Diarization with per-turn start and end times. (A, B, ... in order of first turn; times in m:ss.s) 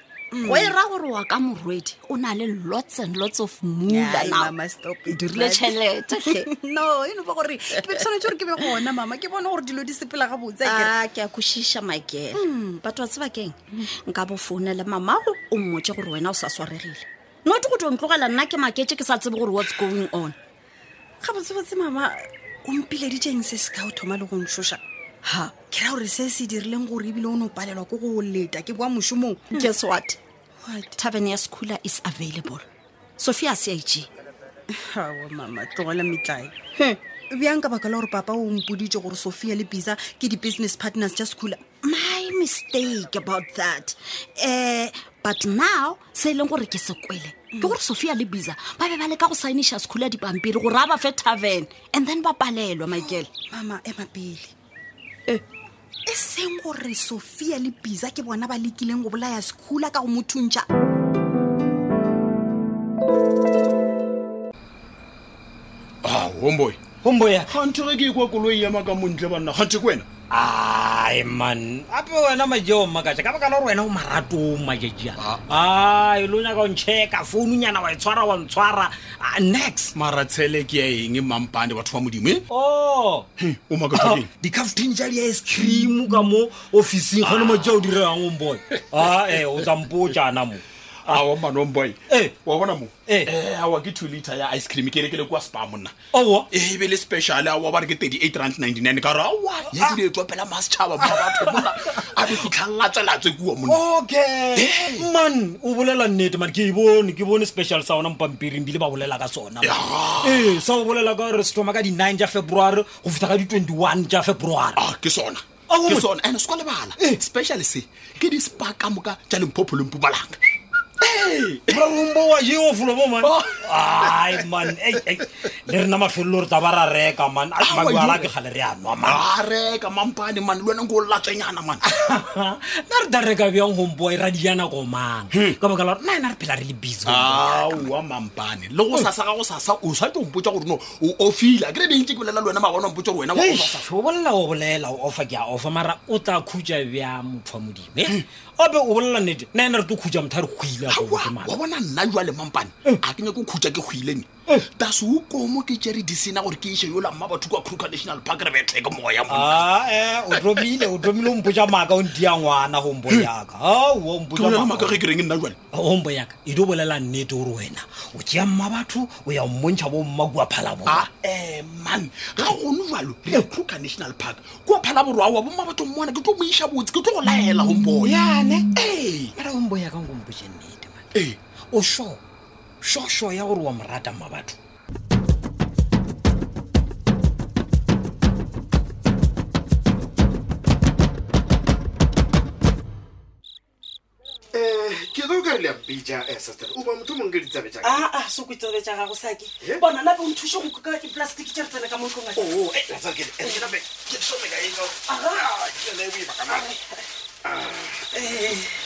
0:00.3-0:00.8 A
0:00.4-0:04.5 B
0:03.9-0:11.0 A
0:05.1-0:06.5 B
0:07.8-0:08.2 B
0:10.6-0:20.4 B
0:12.3-0:12.8 A
0:21.2-0:24.8 A
0:25.2-0:25.5 B
0:25.7-0:29.7 A
0:29.5-0:30.2 B
0:30.6-0:31.0 A
0:31.0-0:32.7 B
0:33.2-0:34.1 B
0:34.7-0:36.6 A
0:37.3-0:41.8 A
0:41.8-0:53.3 B
0:47.5-0:47.8 A
0:53.0-0:54.6 A
0:56.1-1:00.7 A
1:06.0-1:06.8 C
1:07.0-1:07.5 D
1:07.5-1:10.1 C
1:10.3-1:20.0 D
1:19.9-1:22.4 C
1:22.5-1:23.3 D
1:23.4-1:24.3 C
1:23.9-1:31.2 D
1:27.2-1:27.9 C
1:31.1-1:35.9 C
1:32.1-1:32.3 D
1:36.1-1:36.5 D
1:36.5-1:43.8 C
1:39.7-1:40.0 D
1:43.7-1:54.8 D
1:44.5-1:45.1 C
1:49.6-1:50.6 C
1:54.8-2:00.4 C
1:55.7-1:56.1 D
2:01.4-2:09.3 D
2:03.2-2:04.5 C
2:07.6-2:08.3 C
2:09.0-2:11.8 C
2:11.8-2:17.9 D
2:17.1-2:23.9 C
2:23.4-2:31.6 D
2:30.9-2:39.7 C
2:39.3-2:45.0 D
2:44.4-2:45.6 C
2:45.7-2:51.1 D
2:50.9-2:58.2 C
2:58.1-2:58.5 D
2:58.8-2:59.3 C
2:59.4-3:01.0 D
3:01.7-3:02.2 D
3:02.8-3:04.6 D
3:14.5-3:18.1 E
3:17.8-3:22.6 F
3:19.6-3:19.9 E
3:22.4-3:26.7 E
3:25.1-3:25.4 F
3:26.5-3:26.8 F
3:27.4-3:28.2 E
3:28.2-3:28.6 F